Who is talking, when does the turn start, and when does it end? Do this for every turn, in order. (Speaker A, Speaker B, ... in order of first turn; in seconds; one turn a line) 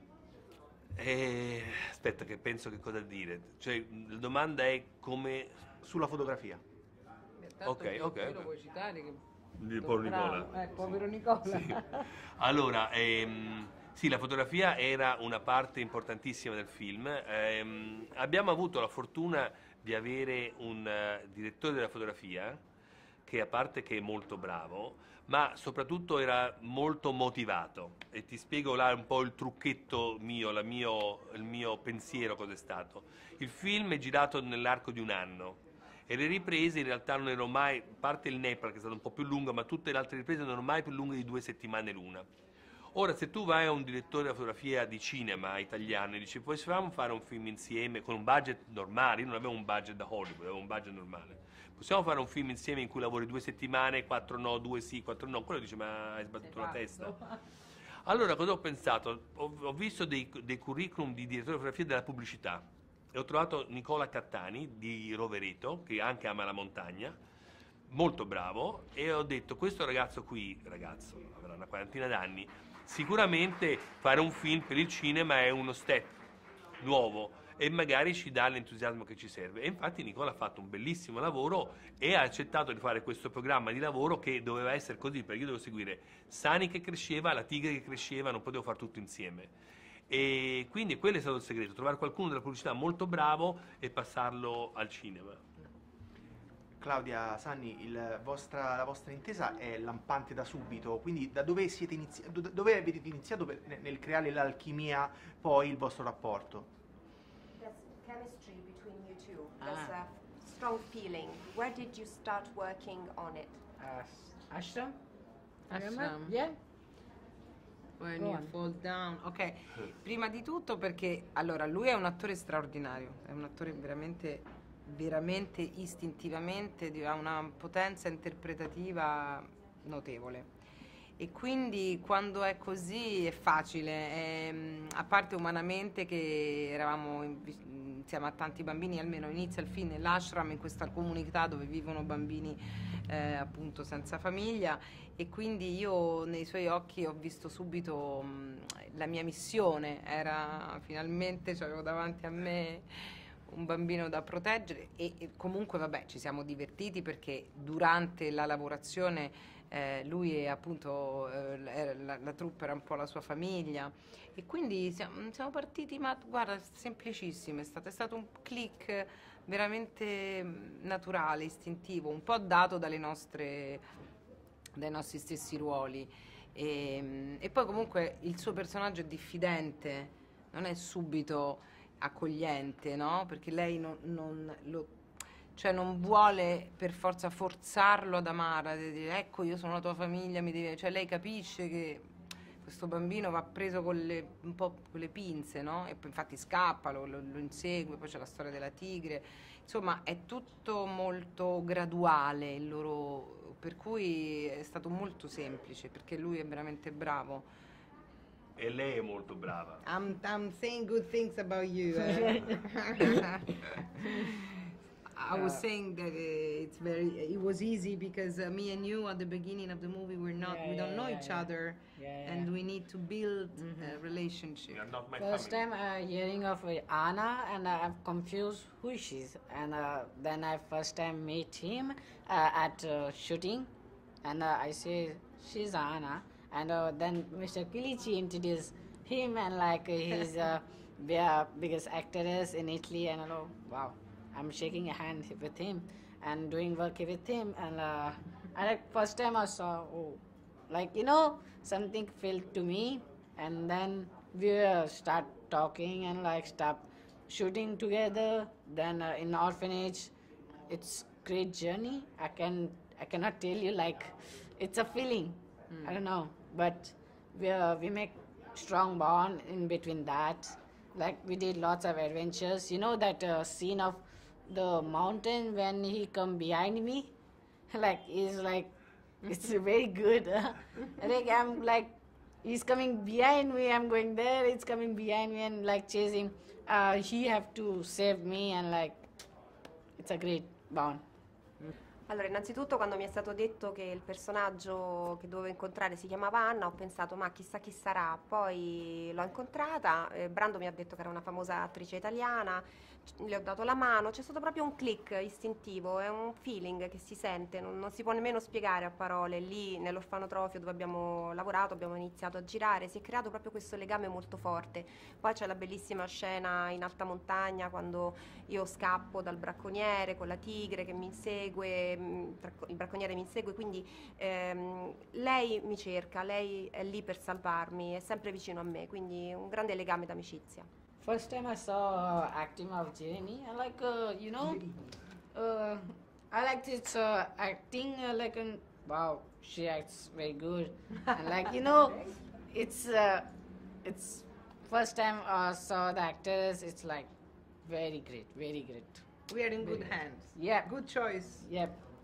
Speaker A: 0.9-5.6
Speaker B: 5.8-6.6
Speaker C: 7.4-9.2
Speaker A: 7.6-8.5
Speaker A: 9.6-22.6
Speaker C: 9.8-12.0
Speaker A: 23.2-42.3
Speaker A: 42.9-57.2
Speaker A: 58.0-67.2
Speaker A: 67.9-76.2
Speaker A: 76.8-89.5
Speaker A: 90.1-95.4
Speaker B: 96.8-106.7
Speaker D: 107.6-113.6
Speaker E: 109.6-109.9
Speaker E: 113.8-115.0
Speaker C: 115.7-116.4
Speaker E: 115.7-116.5
Speaker C: 118.0-130.5
Speaker E: 118.2-118.5
Speaker C: 131.2-173.8
Speaker C: 174.7-184.9
Speaker C: 185.5-192.1
Speaker C: 192.6-207.5
Speaker A: 208.6-209.8
Speaker C: 209.8-214.5
Speaker E: 212.3-212.5
Speaker C: 215.1-224.8
Speaker E: 215.3-215.6
Speaker E: 220.4-222.5
Speaker A: 224.7-225.6
Speaker E: 225.2-233.7
Speaker E: 234.2-260.1
Speaker E: 260.7-277.1
Speaker E: 277.7-278.7
Speaker E: 279.2-289.1
Speaker E: 290.0-291.0
Speaker D: 292.1-330.7
Speaker E: 331.0-334.6
Speaker E: 335.3-343.3
Speaker E: 343.8-347.1
Speaker E: 347.6-349.1
Speaker C: 349.3-351.5
Speaker E: 349.6-350.7
Speaker E: 351.4-351.8